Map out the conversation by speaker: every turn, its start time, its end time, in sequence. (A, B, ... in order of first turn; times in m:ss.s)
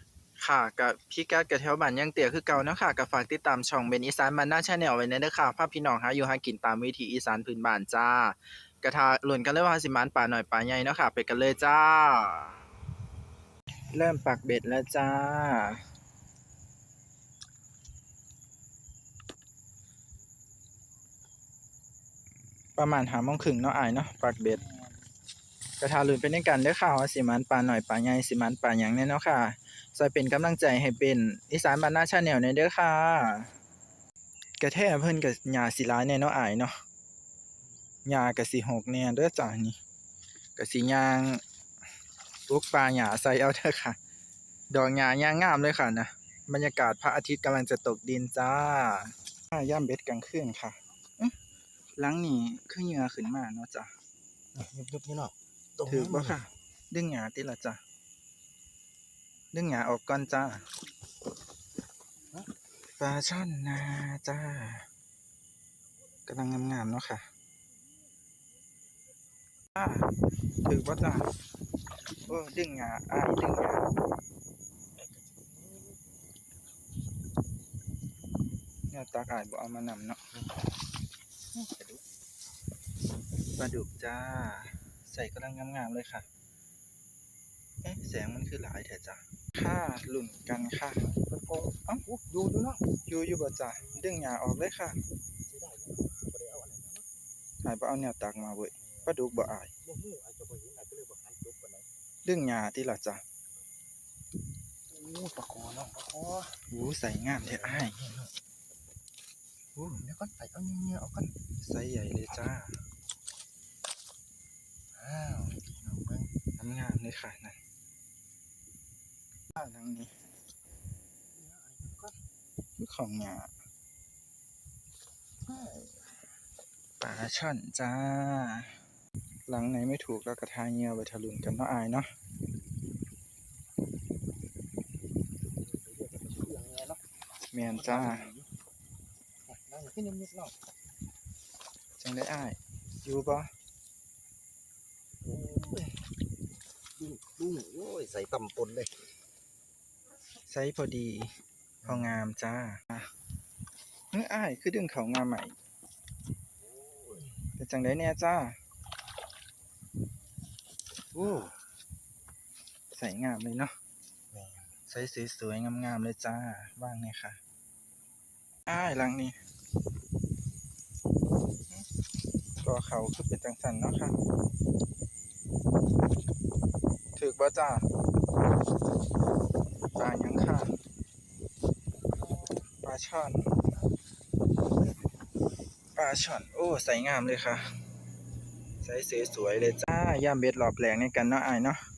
0:00.4-0:12.6 A
0:13.9-0:15.8 A
0:22.8-0:24.6 A
0:25.8-0:33.5 A
0:34.6-0:36.8 A
0:38.0-0:39.8 A
0:40.6-0:41.4 A
0:42.5-0:44.0 A
0:44.7-0:51.4 A
0:52.0-0:53.9 A
0:54.5-0:56.4 B
0:55.9-0:57.8 A
0:59.5-1:00.7 A
1:03.0-1:04.9 A
1:06.3-1:07.3 A
1:09.7-1:10.1 A
1:10.6-1:11.3 A
1:12.3-1:13.9 A
1:15.1-1:16.0 B
1:18.9-1:20.2 A
1:21.5-1:22.0 B
1:23.6-1:26.2 A
1:27.8-1:31.0 A
1:31.0-1:32.9 B
1:33.1-1:35.0 A
1:33.8-1:34.1 B
1:35.4-1:37.0 B
1:37.6-1:39.7 A
1:39.8-1:41.9 B
1:42.2-1:43.2 A
1:44.9-1:46.6 B
1:46.7-1:48.0 A
1:47.3-1:48.3 B
1:49.7-1:50.0 A
1:50.0-1:51.3 B
1:51.6-1:52.8 A
1:55.0-1:56.3 B
1:56.6-1:57.6 A
1:59.6-2:00.1 A
2:01.3-2:02.2 B
2:02.8-2:03.5 A
2:05.5-2:06.0 B
2:07.0-2:08.8 A
2:09.5-2:12.1 A
2:15.6-2:17.0 B
2:17.5-2:18.3 A
2:17.7-2:18.5 B
2:19.4-2:20.5 B
2:22.0-2:23.5 A
2:25.2-2:26.0 B
2:27.0-2:28.9 B
2:30.5-2:31.3 A
2:31.8-2:32.2 B
2:31.8-2:33.1 A
2:34.1-2:35.5 A
2:36.7-2:37.4 B
2:37.6-2:38.6 A
2:41.1-2:41.5 B
2:42.9-2:43.7 A
2:44.3-2:44.7 B
2:44.9-2:47.4 A
2:48.7-2:49.4 A
2:52.6-2:54.2 A
2:57.2-2:57.8 A
3:00.0-3:00.7 A
3:02.8-3:03.5 A
3:05.9-3:07.7 A
3:08.8-3:11.8 A